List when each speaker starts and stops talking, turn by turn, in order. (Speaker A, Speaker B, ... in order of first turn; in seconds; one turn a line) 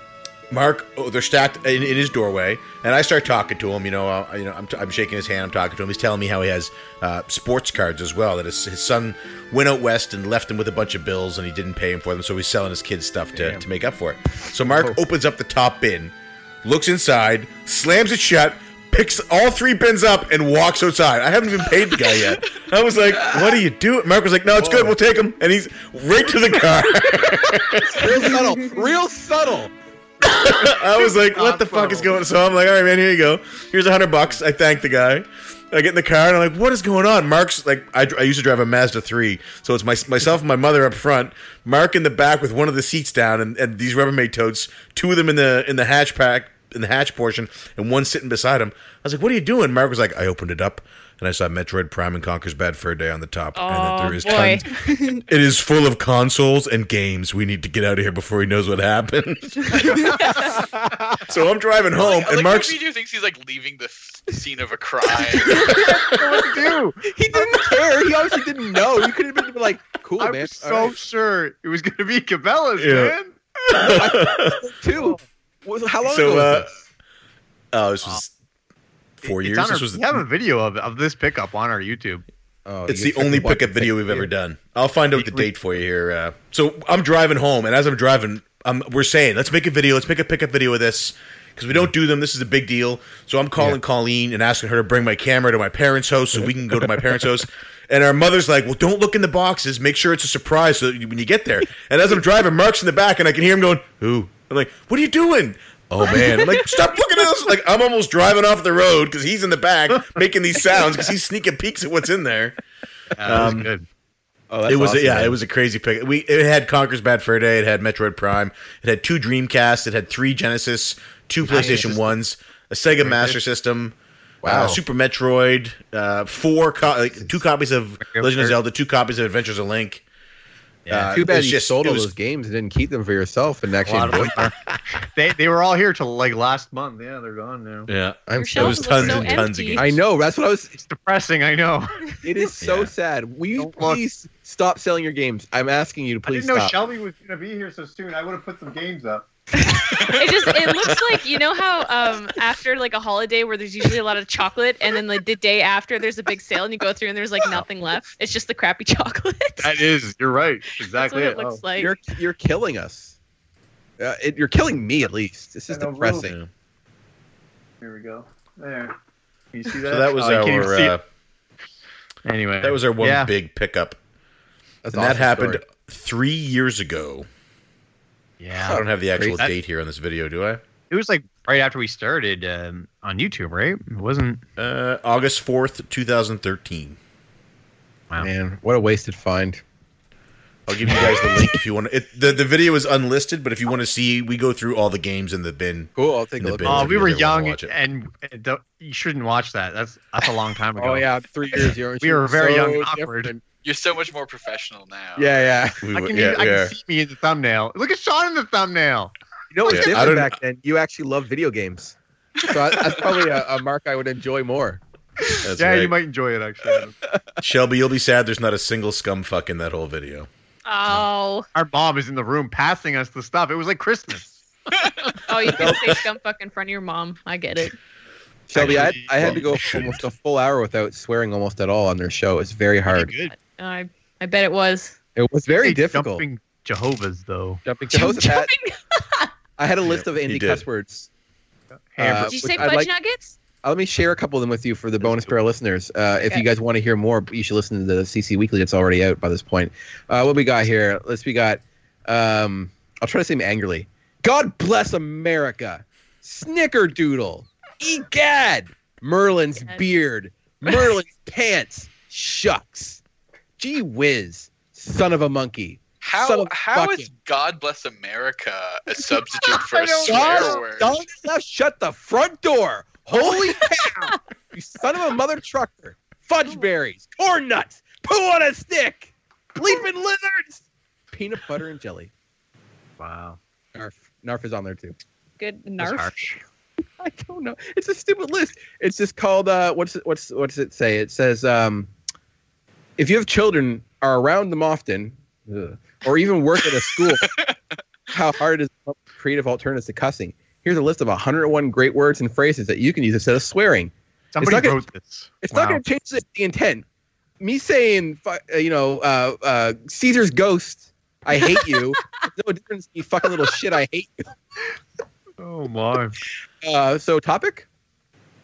Speaker A: 0.5-28.3
Speaker B: 13.3-13.6
Speaker B: 14.6-15.0
Speaker B: 27.8-29.7
Speaker A: 30.2-60.5
Speaker C: 30.4-32.2
Speaker D: 53.5-55.2
Speaker D: 59.7-60.6
Speaker C: 59.8-61.2
Speaker A: 61.2-62.8
Speaker E: 61.9-65.8
Speaker C: 65.6-67.8
Speaker A: 65.8-66.2
Speaker B: 67.0-71.0
Speaker C: 70.2-73.3
Speaker A: 72.8-73.1
Speaker A: 73.7-74.6
Speaker B: 73.8-76.8
Speaker A: 76.0-76.7
Speaker A: 77.7-78.3
Speaker A: 79.2-80.2
Speaker C: 79.2-82.2
Speaker B: 82.7-84.3
Speaker A: 82.9-112.6
Speaker C: 85.1-85.5
Speaker C: 113.1-113.9
Speaker A: 113.2-113.7
Speaker B: 114.5-115.4
Speaker A: 114.7-130.0
Speaker C: 121.4-122.1
Speaker B: 121.5-121.9
Speaker C: 123.0-123.4
Speaker B: 124.4-124.8
Speaker C: 124.5-124.8
Speaker C: 128.0-128.6
Speaker C: 130.8-131.2
Speaker A: 130.9-132.1
Speaker B: 130.9-134.5
Speaker C: 133.8-137.9
Speaker A: 137.9-140.0
Speaker B: 138.3-139.1
Speaker D: 138.4-139.8
Speaker C: 139.0-139.4
Speaker B: 139.8-140.8
Speaker C: 140.8-142.1
Speaker B: 142.2-146.8
Speaker A: 142.6-142.9
Speaker C: 143.6-144.0
Speaker C: 146.2-149.3
Speaker D: 149.5-159.8
Speaker C: 159.6-161.6
Speaker D: 160.9-161.9
Speaker B: 161.8-163.2
Speaker B: 164.0-166.3
Speaker C: 165.7-166.3
Speaker A: 166.2-166.5
Speaker C: 167.8-168.9
Speaker C: 169.5-170.9
Speaker A: 169.8-171.0
Speaker C: 172.2-173.3
Speaker A: 172.6-174.0
Speaker B: 174.8-175.6
Speaker A: 174.9-177.3
Speaker C: 178.4-178.8
Speaker A: 178.6-180.6
Speaker B: 178.6-179.4
Speaker C: 180.9-184.4
Speaker A: 184.6-187.0
Speaker B: 188.2-189.6
Speaker A: 190.7-197.7
Speaker B: 190.9-191.2
Speaker B: 195.9-197.0
Speaker C: 196.6-201.1
Speaker B: 200.8-203.3
Speaker C: 202.0-203.4
Speaker E: 203.6-205.4
Speaker B: 205.2-205.8
Speaker A: 205.8-206.7
Speaker C: 205.9-209.1
Speaker B: 209.5-214.8
Speaker A: 209.7-210.3
Speaker E: 212.7-213.0
Speaker C: 215.3-216.9
Speaker A: 215.4-215.9
Speaker A: 217.4-220.3
Speaker D: 220.7-221.5
Speaker C: 221.5-225.7
Speaker D: 225.2-227.7
Speaker B: 225.6-225.8
Speaker B: 228.5-233.1
Speaker C: 228.5-229.7
Speaker A: 228.5-230.1
Speaker C: 232.9-233.3
Speaker D: 233.3-235.0
Speaker B: 235.2-236.2
Speaker C: 235.6-237.6
Speaker B: 237.7-238.5
Speaker D: 237.9-239.3
Speaker B: 239.6-241.1
Speaker A: 239.8-240.6
Speaker C: 241.7-242.5
Speaker B: 242.0-242.9
Speaker D: 242.2-243.4
Speaker B: 243.6-263.0
Speaker B: 263.6-267.1
Speaker E: 266.0-270.9
Speaker C: 269.4-270.6
Speaker B: 270.0-282.1
Speaker D: 273.2-274.2
Speaker C: 283.0-283.4
Speaker B: 283.7-284.9
Speaker D: 285.4-286.2
Speaker C: 285.8-286.4
Speaker B: 287.0-291.9
Speaker B: 293.0-297.3
Speaker E: 296.9-297.6
Speaker B: 298.1-304.8
Speaker C: 304.3-305.8
Speaker B: 305.4-306.8
Speaker B: 307.4-314.3
Speaker D: 311.6-312.2
Speaker C: 315.4-316.2
Speaker B: 316.6-317.7